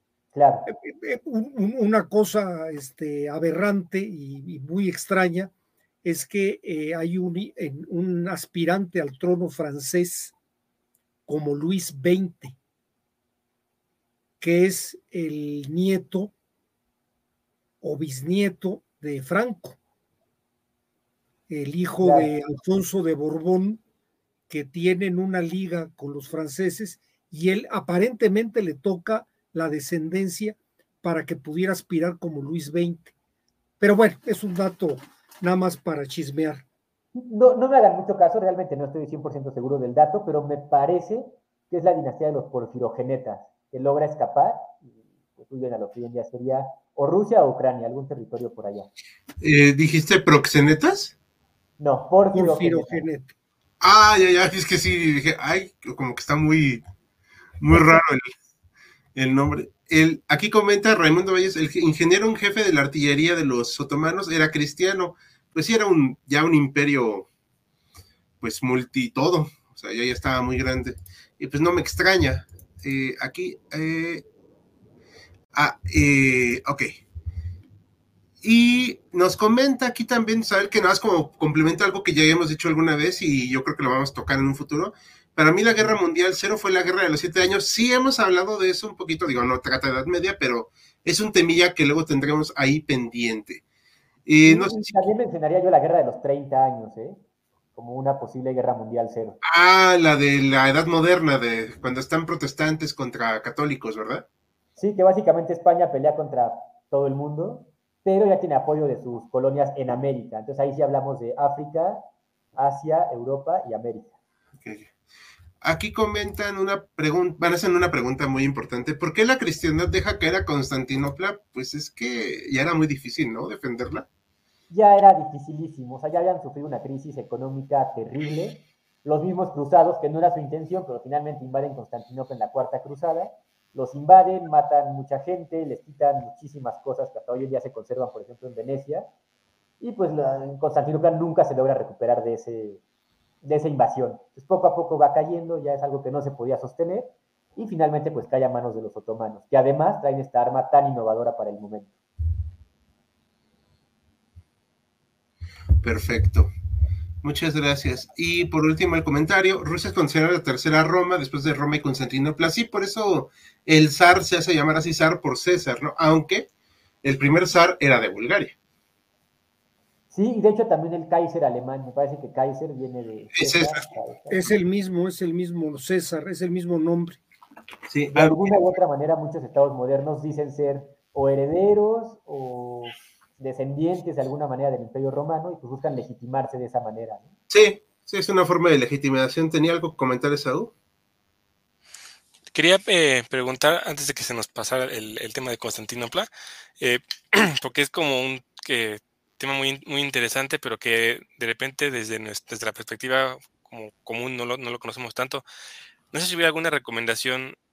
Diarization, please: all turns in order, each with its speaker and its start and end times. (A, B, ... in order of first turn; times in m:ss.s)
0:00.3-0:00.7 A
0:00.6-0:05.5 B
0:06.0-0:10.3 B
0:11.3-0:12.6 B
0:14.4-0:16.3 B
0:17.8-0:19.8 B
0:21.5-0:23.8 B
0:22.0-0:22.3 A
0:24.5-0:33.1 B
0:33.8-0:36.6 B
0:37.1-0:48.9 A
0:49.4-0:51.1 C
0:51.8-0:53.0 A
0:52.3-0:53.3 B
0:53.8-0:56.8 C
0:57.6-0:58.3 C
0:59.1-1:07.3 C
1:08.4-1:14.2 C
1:15.5-1:17.0 C
1:18.4-1:33.6 C
1:34.2-1:34.9 C
1:34.4-1:37.2 A
1:37.7-1:39.4 A
1:39.4-1:44.2 C
1:44.8-1:52.0 A
1:52.6-1:54.1 A
1:54.6-1:54.9 C
1:55.6-2:04.0 C
2:04.7-2:19.0 A
2:19.8-2:22.8 A
2:23.4-2:31.9 A
2:35.8-2:36.5 C
2:37.2-2:46.5 C
2:47.0-2:48.5 C
2:50.1-2:54.6 A
2:53.3-2:53.8 C
2:54.3-2:57.2 B
2:57.9-2:58.6 C
2:58.1-3:07.3 A
3:07.5-3:10.7 C
3:12.5-3:25.4 D
3:26.1-3:27.6 D